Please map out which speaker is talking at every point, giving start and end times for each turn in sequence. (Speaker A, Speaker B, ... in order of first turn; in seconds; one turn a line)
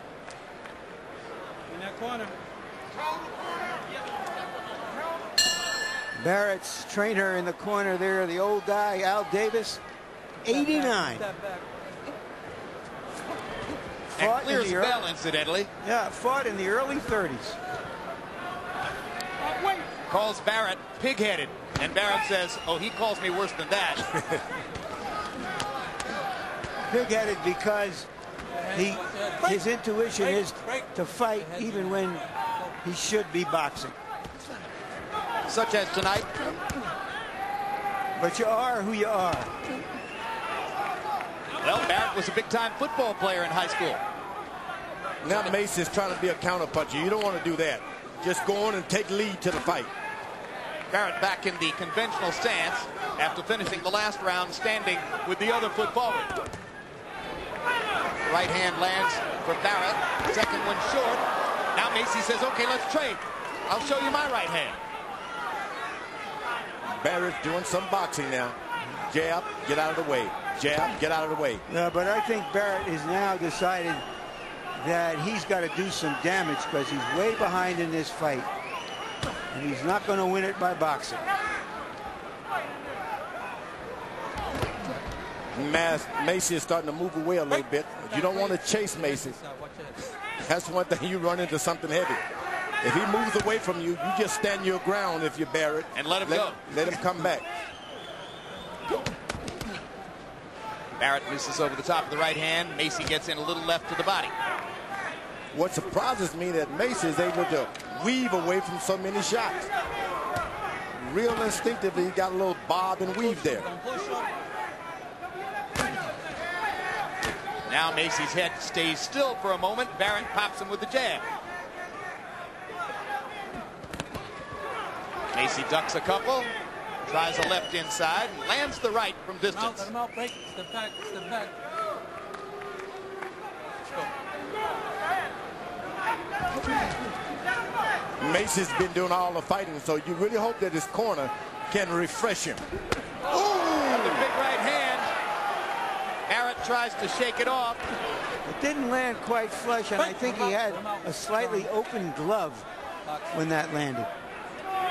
Speaker A: 1.7-2.3
Speaker B: 6.2-9.8
Speaker B: 10.4-11.2
Speaker A: 10.4-11.6
Speaker B: 14.1-15.0
Speaker C: 14.2-15.7
Speaker B: 15.8-17.6
Speaker C: 20.1-24.0
Speaker B: 26.9-28.1
Speaker A: 28.5-32.8
Speaker B: 28.7-32.2
Speaker B: 32.8-33.9
Speaker C: 35.5-36.4
Speaker B: 38.1-39.5
Speaker C: 41.6-44.0
Speaker D: 45.2-49.9
Speaker C: 50.9-56.3
Speaker C: 58.3-61.2
Speaker C: 61.7-64.8
Speaker D: 67.0-68.5
Speaker D: 69.1-71.6
Speaker B: 71.7-74.0
Speaker B: 74.7-78.5
Speaker B: 79.5-81.2
Speaker D: 85.5-89.3
Speaker A: 87.5-90.0
Speaker D: 90.4-92.2
Speaker D: 92.8-97.5
Speaker C: 95.9-96.7
Speaker C: 101.0-104.3
Speaker D: 105.5-109.7
Speaker D: 111.0-113.7
Speaker A: 113.1-114.3
Speaker C: 117.7-121.2
Speaker C: 125.3-126.5
Speaker C: 127.0-129.9
Speaker A: 129.5-131.5
Speaker D: 138.2-142.6
Speaker C: 143.3-145.1
Speaker D: 143.3-144.3
Speaker C: 146.3-147.8
Speaker B: 148.4-152.7
Speaker A: 149.9-151.7
Speaker A: 153.1-153.4
Speaker B: 153.3-154.1